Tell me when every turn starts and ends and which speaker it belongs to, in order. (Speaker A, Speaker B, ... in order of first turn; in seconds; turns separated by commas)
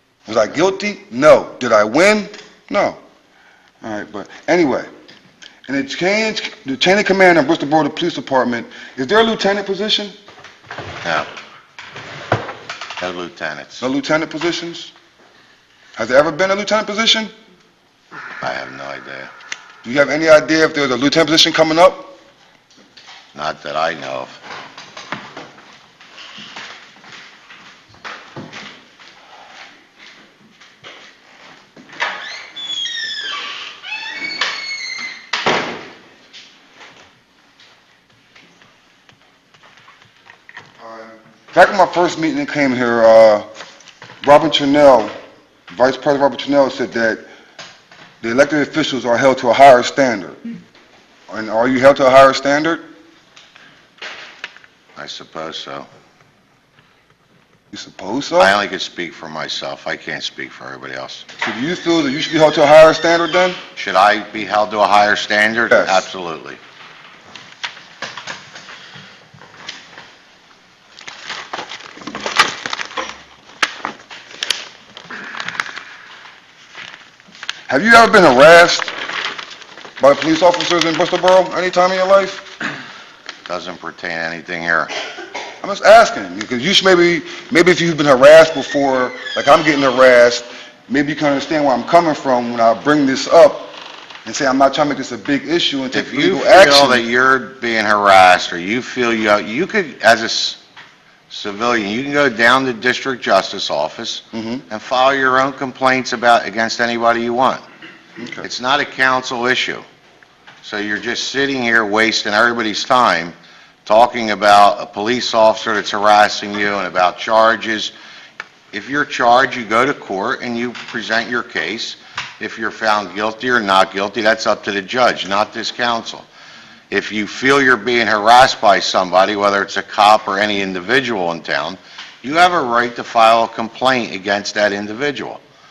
Speaker A: 0.2-3.0, Speaker A: 3.8-4.9, Speaker A: 5.7-10.1, Speaker B: 11.0-11.3, Speaker B: 13.0-13.8, Speaker A: 13.8-14.9, Speaker A: 15.9-17.3, Speaker B: 18.4-19.3, Speaker A: 19.8-22.1, Speaker B: 23.3-24.4, Speaker A: 40.8-43.5, Speaker A: 44.2-45.1, Speaker A: 45.7-47.2, Speaker A: 48.2-50.4, Speaker A: 51.3-52.8, Speaker B: 55.0-55.9, Speaker A: 57.7-58.5, Speaker B: 58.4-61.2, Speaker A: 61.4-63.6, Speaker B: 63.8-66.6, Speaker A: 65.7-66.0, Speaker A: 77.7-78.9, Speaker A: 80.0-82.5, Speaker B: 83.5-84.9, Speaker A: 85.6-97.0, Speaker B: 95.9-100.6, Speaker B: 101.3-107.6, Speaker A: 104.3-104.6, Speaker A: 108.2-108.5, Speaker B: 108.4-109.8, Speaker B: 110.6-113.3, Speaker B: 113.8-117.9, Speaker B: 118.7-126.3, Speaker B: 126.9-135.4